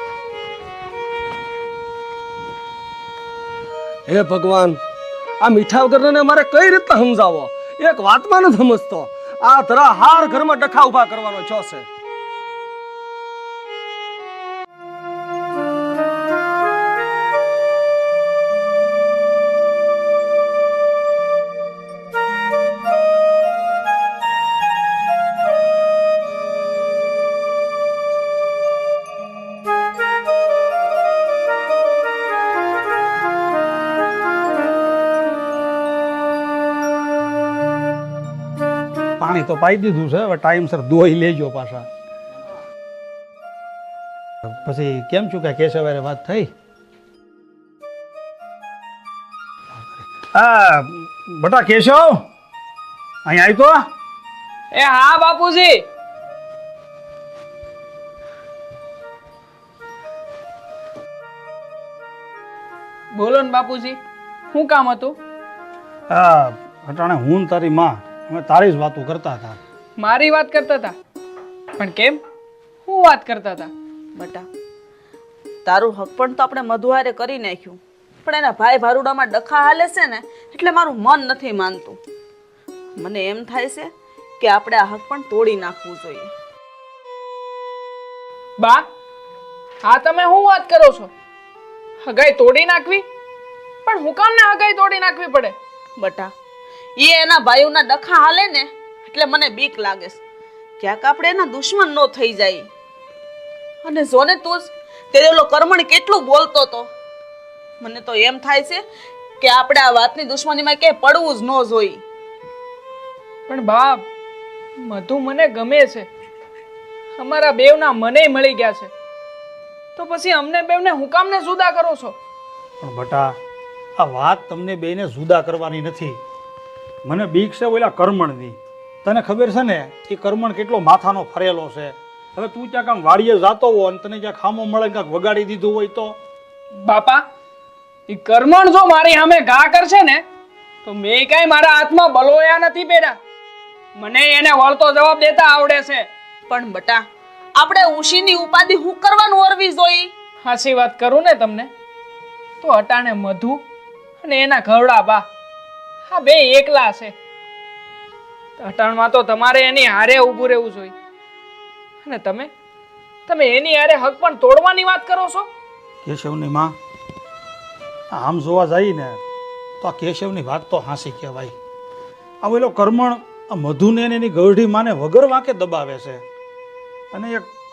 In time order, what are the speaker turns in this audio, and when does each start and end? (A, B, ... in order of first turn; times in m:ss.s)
0:04.1-0:04.8 A
0:05.4-0:11.8 A
0:39.2-0:41.9 B
0:44.4-0:46.5 B
0:50.2-0:52.2 B
0:53.2-0:53.8 B
0:54.7-0:55.8 C
1:03.1-1:04.0 C
1:04.5-1:05.2 C
1:06.1-1:09.6 B
1:10.0-1:10.9 C
1:11.8-1:12.2 C
1:12.9-1:13.7 C
1:14.1-1:14.4 D
1:15.6-1:22.0 D
1:23.0-1:23.9 D
1:24.4-1:26.3 D
1:29.8-1:31.1 C
1:32.0-1:33.0 C
1:33.8-1:35.5 C
1:36.0-1:36.3 D
1:37.0-1:40.2 D
1:40.8-1:42.7 D
1:43.8-1:46.9 D
1:47.8-1:48.8 D
1:49.4-1:52.0 D
1:53.5-1:54.0 C
1:54.8-1:56.0 C
1:57.2-1:58.9 C
2:00.0-2:02.1 C
2:02.8-2:03.3 B
2:04.0-2:06.2 B
2:07.0-2:16.2 B
2:16.8-2:17.2 C
2:18.1-2:20.2 C
2:20.8-2:23.2 C
2:24.0-2:26.0 C
2:26.5-2:27.0 D
2:27.6-2:30.1 D
2:30.4-2:31.7 C
2:32.6-2:33.6 C
2:34.2-2:35.2 C
2:36.1-2:37.1 C
2:38.6-2:40.9 C
2:42.0-2:42.5 C
2:43.3-2:45.5 C
2:46.0-2:46.8 B
2:48.1-2:49.2 B
2:49.8-2:51.5 B
2:52.4-2:56.2 B
2:57.1-2:57.5 B